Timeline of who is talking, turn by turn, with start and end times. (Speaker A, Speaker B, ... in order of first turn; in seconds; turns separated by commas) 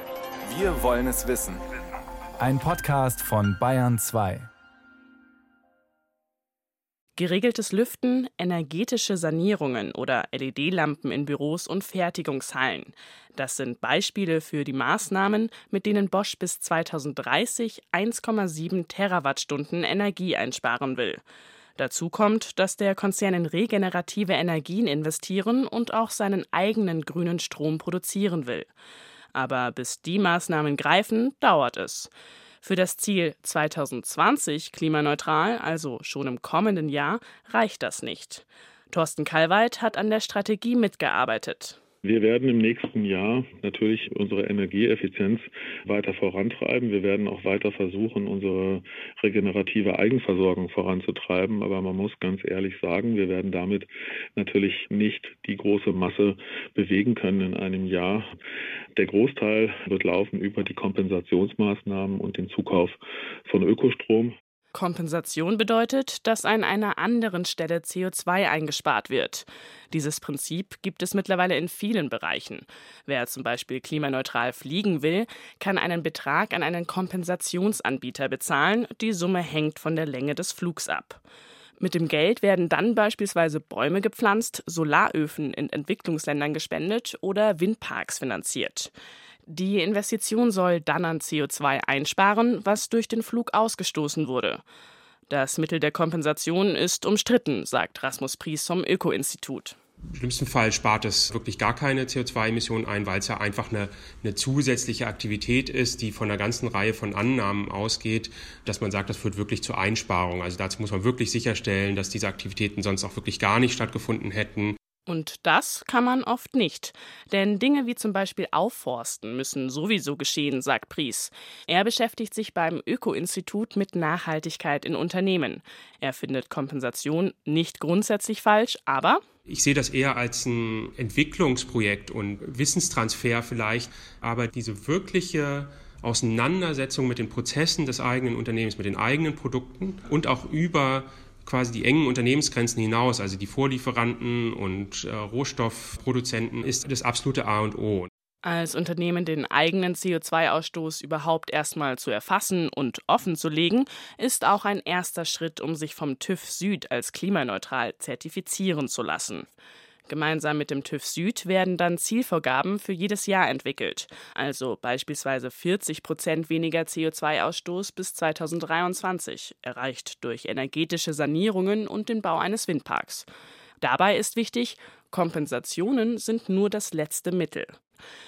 Speaker A: 0.5-1.6, Speaker A: 2.4-4.5, Speaker B: 7.2-21.2, Speaker B: 21.8-28.7, Speaker B: 29.3-41.8, Speaker C: 42.0-58.3, Speaker C: 59.0-64.3, Speaker B: 64.7-81.2, Speaker B: 81.8-88.9, Speaker B: 89.5-94.6, Speaker B: 95.3-99.8, Speaker D: 100.2-114.8, Speaker B: 115.1-129.2, Speaker D: 129.5-148.1, Speaker B: 148.4-159.5, Speaker B: 160.1-173.3, Speaker B: 173.8-177.8